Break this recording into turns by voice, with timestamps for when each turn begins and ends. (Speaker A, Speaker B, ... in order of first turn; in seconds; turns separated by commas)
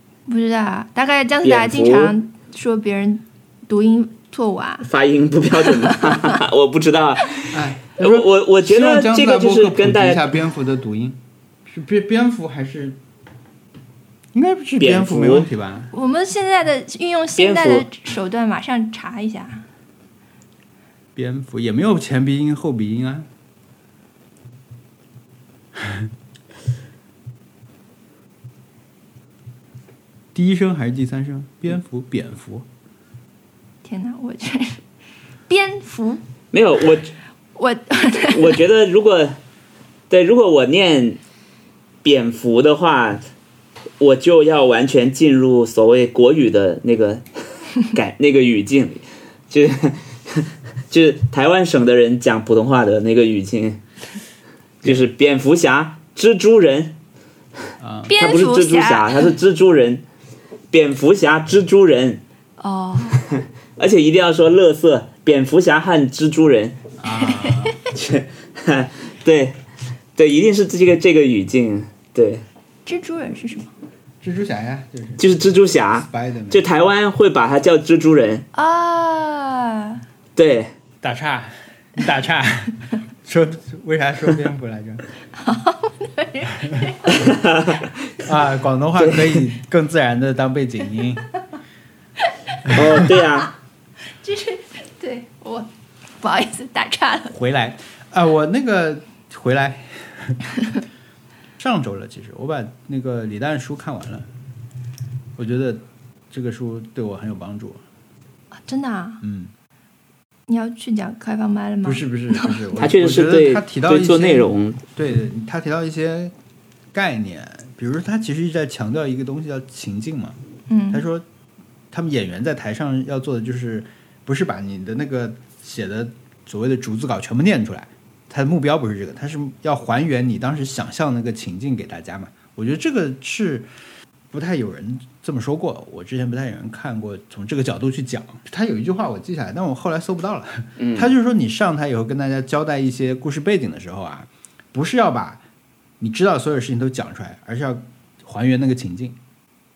Speaker A: 0.3-4.9, Speaker B: 1.4-2.1, Speaker B: 4.8-10.3, Speaker A: 5.6-6.4, Speaker C: 7.5-13.0, Speaker C: 14.3-15.9, Speaker B: 14.8-15.5, Speaker A: 15.9-19.6, Speaker B: 17.4-17.9, Speaker C: 21.1-23.3, Speaker C: 25.8-26.1, Speaker C: 30.3-32.6, Speaker A: 33.8-34.8, Speaker A: 35.5-36.2, Speaker B: 36.5-37.1, Speaker A: 37.5-38.6, Speaker B: 38.3-39.4, Speaker B: 40.1-41.2, Speaker B: 42.0-43.2, Speaker B: 44.0-47.2, Speaker B: 47.8-53.8, Speaker B: 54.8-57.0, Speaker C: 57.8-58.1, Speaker A: 58.1-59.3, Speaker B: 58.2-60.0, Speaker B: 60.7-62.2, Speaker A: 62.6-63.2, Speaker B: 63.3-66.8, Speaker C: 67.0-67.8, Speaker A: 67.3-67.8, Speaker B: 67.9-69.6, Speaker B: 70.2-72.4, Speaker A: 72.8-73.7, Speaker C: 74.2-75.2, Speaker B: 75.2-78.5, Speaker C: 76.1-76.6, Speaker A: 78.5-80.0, Speaker B: 80.3-80.7, Speaker C: 81.0-85.0, Speaker A: 85.4-87.3, Speaker B: 87.1-88.1, Speaker C: 88.2-91.3, Speaker B: 89.0-89.4, Speaker A: 92.5-93.4, Speaker B: 92.7-93.5, Speaker A: 94.2-95.7, Speaker A: 96.2-97.3, Speaker C: 97.3-100.4, Speaker C: 101.6-104.3, Speaker C: 105.4-107.8, Speaker A: 108.6-109.2, Speaker C: 109.2-109.5, Speaker A: 110.5-112.6, Speaker C: 111.8-116.3, Speaker B: 112.8-114.8, Speaker C: 116.9-120.3, Speaker A: 120.7-121.0, Speaker C: 120.9-121.2, Speaker C: 121.9-133.7, Speaker C: 134.3-145.4, Speaker B: 140.8-141.1, Speaker C: 146.0-149.2